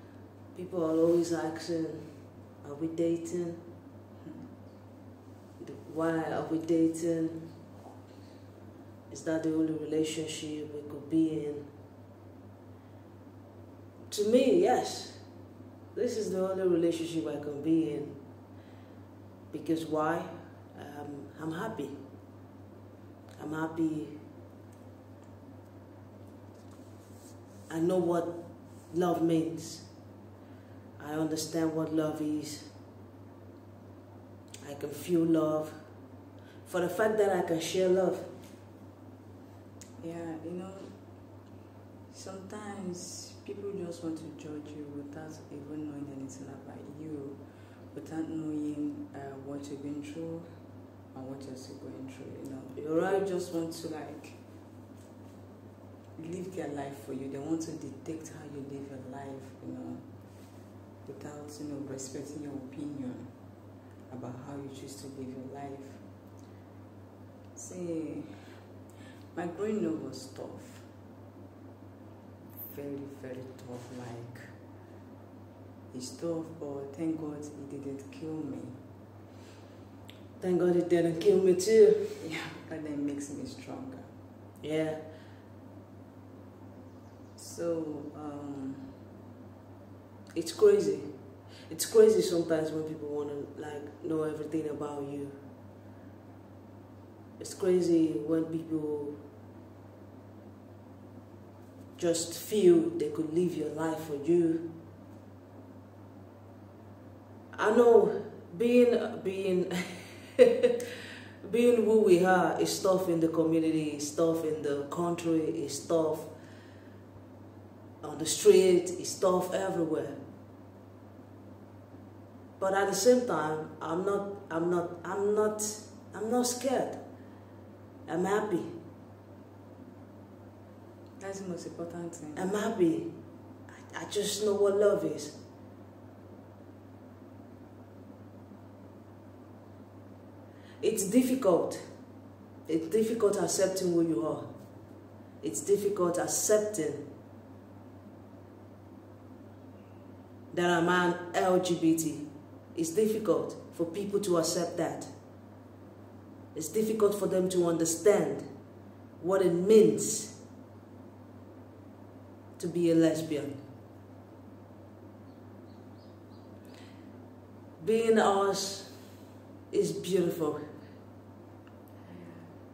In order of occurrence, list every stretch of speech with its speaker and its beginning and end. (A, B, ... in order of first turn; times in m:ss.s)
0:00.5-0:03.6 A
0:05.6-0:07.5 A
0:09.1-0:11.7 A
0:14.1-0:15.2 A
0:15.9-0:18.2 A
0:19.5-0:22.0 A
0:23.4-0:24.2 A
0:27.7-0:29.9 A
0:31.0-0:32.7 A
0:34.6-0:35.9 A
0:36.6-0:38.3 A
0:40.0-0:41.4 B
0:42.1-0:54.4 B
0:52.7-0:53.2 A
0:56.2-1:00.5 B
1:01.0-1:03.4 B
1:04.1-1:06.0 B
1:07.5-1:08.6 B
1:09.3-1:10.9 B
1:12.6-1:14.6 B
1:15.9-1:18.8 B
1:20.4-1:22.2 A
1:22.2-1:24.1 B
1:24.6-1:25.1 A
1:27.3-1:29.0 B
1:30.3-1:31.1 A
1:31.7-1:35.4 A
1:37.4-1:39.2 A
1:42.0-1:44.7 A
1:47.5-1:50.7 A
1:51.4-1:56.3 A
1:58.0-2:00.2 A
2:02.6-2:07.0 A
2:08.0-2:08.8 A
2:11.2-2:12.5 B
2:12.4-2:13.1 A
2:13.7-2:15.4 A
2:20.8-2:21.8 A
2:22.7-2:24.5 A
2:25.4-2:27.0 A
2:30.5-2:35.1 A
2:36.5-2:38.5 A
2:39.2-2:40.4 A
2:42.6-2:43.6 A
2:47.8-2:49.1 A
2:49.7-2:50.6 A
2:52.1-2:52.5 B